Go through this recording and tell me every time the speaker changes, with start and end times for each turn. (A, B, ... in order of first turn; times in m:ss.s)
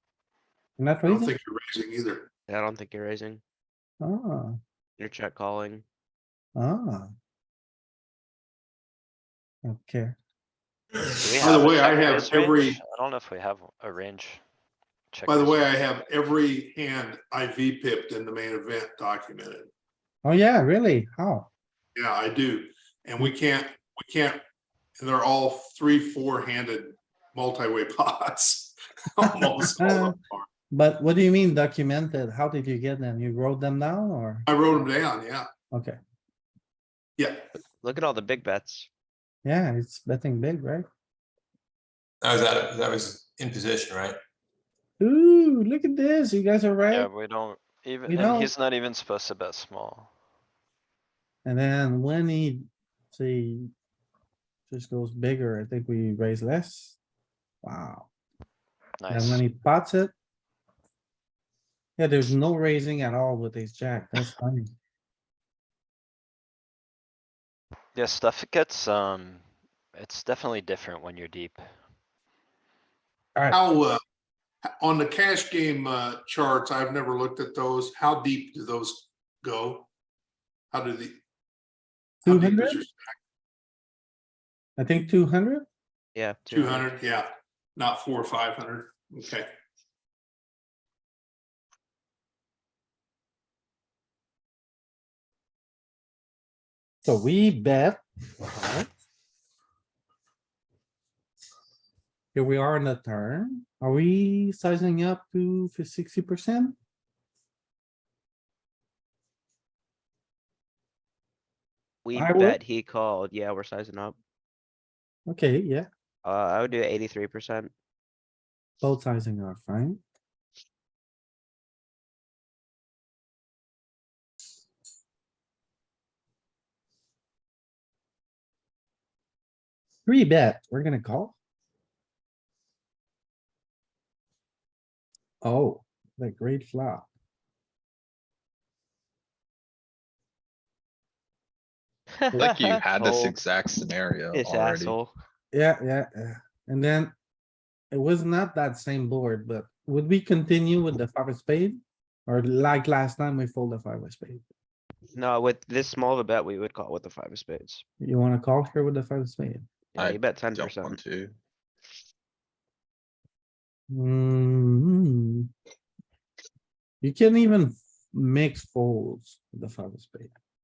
0:00.8-0:01.3 A
0:01.1-0:02.3 B
0:02.5-0:03.4 C
0:04.0-0:04.6 A
0:05.0-0:05.8 C
0:06.6-0:07.1 A
0:09.6-0:10.1 A
0:11.2-0:14.4 D
0:11.4-0:12.8 B
0:15.1-0:15.8 D
0:15.3-0:19.7 B
0:20.2-0:21.5 A
0:21.9-0:24.4 B
0:25.0-0:30.5 B
0:29.7-0:30.1 A
0:30.7-0:34.5 A
0:34.5-0:35.5 B
0:35.7-0:36.0 A
0:37.2-0:37.4 B
0:37.8-0:38.9 C
0:39.4-0:40.8 A
0:42.2-0:44.2 E
0:45.0-0:47.1 A
0:46.9-0:50.1 D
0:48.1-0:48.5 A
0:51.4-0:53.7 A
0:54.7-0:57.0 A
0:57.6-0:58.1 A
0:59.0-0:59.4 D
0:59.1-1:00.1 A
1:02.0-1:04.7 A
1:07.9-1:11.6 D
1:13.5-1:14.0 B
1:14.8-1:19.9 B
1:20.7-1:21.2 B
1:22.2-1:23.1 B
1:22.2-1:22.8 A
1:24.8-1:25.6 A
1:26.1-1:26.9 C
1:26.5-1:29.5 B
1:37.0-1:38.0 A
1:38.6-1:38.8 A
1:42.3-1:46.8 A
1:52.0-1:54.2 C
1:52.1-1:52.6 A
1:55.3-1:55.9 A
1:56.2-1:57.7 C
1:58.8-2:00.0 A
2:10.0-2:11.3 A
2:15.4-2:17.1 A
2:22.3-2:23.3 C
2:22.3-2:25.0 F
2:24.3-2:25.1 C
2:25.5-2:27.1 A
2:27.9-2:34.4 A
2:35.1-2:37.8 C
2:38.0-2:39.7 A
2:40.0-2:41.0 C
2:40.0-2:41.3 F
2:43.9-2:45.5 A
2:47.0-2:50.3 A